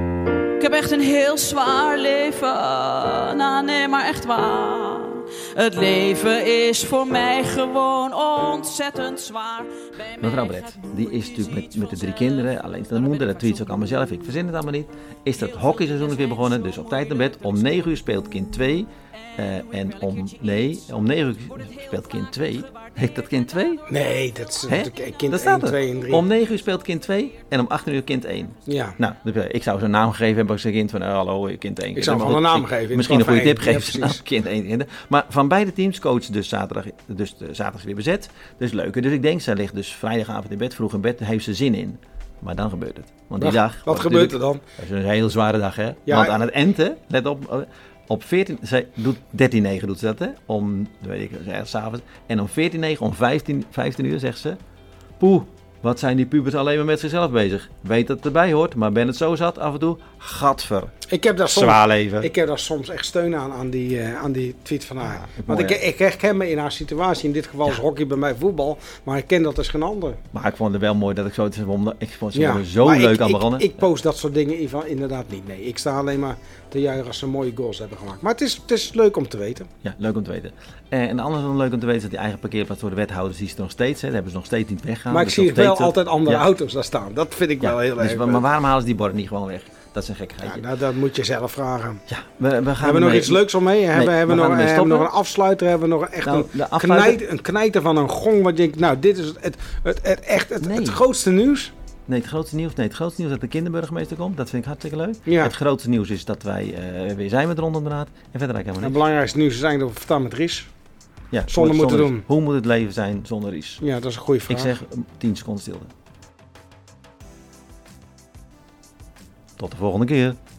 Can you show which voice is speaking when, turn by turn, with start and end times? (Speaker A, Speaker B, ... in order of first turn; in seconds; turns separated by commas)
Speaker A: 0.6-13.8, Speaker B: 10.2-23.8, Speaker A: 15.8-16.3, Speaker A: 22.5-22.8, Speaker C: 23.9-26.3, Speaker B: 24.7-54.6, Speaker C: 28.7-29.0, Speaker C: 31.9-34.2, Speaker C: 43.4-44.6, Speaker C: 46.1-46.4, Speaker B: 55.2-62.3, Speaker C: 61.1-70.2, Speaker B: 65.0-65.8, Speaker B: 70.3-73.9, Speaker C: 72.3-79.7, Speaker B: 79.8-86.5, Speaker C: 85.1-88.5, Speaker B: 87.6-90.6, Speaker C: 90.4-92.0, Speaker B: 92.1-95.1, Speaker C: 92.8-101.7, Speaker B: 96.2-97.2, Speaker B: 100.6-101.0, Speaker B: 102.1-109.0, Speaker C: 105.3-105.5, Speaker C: 108.8-110.7, Speaker B: 111.3-113.8, Speaker C: 111.5-112.3, Speaker C: 113.8-114.8, Speaker B: 114.5-115.9, Speaker B: 119.6-120.4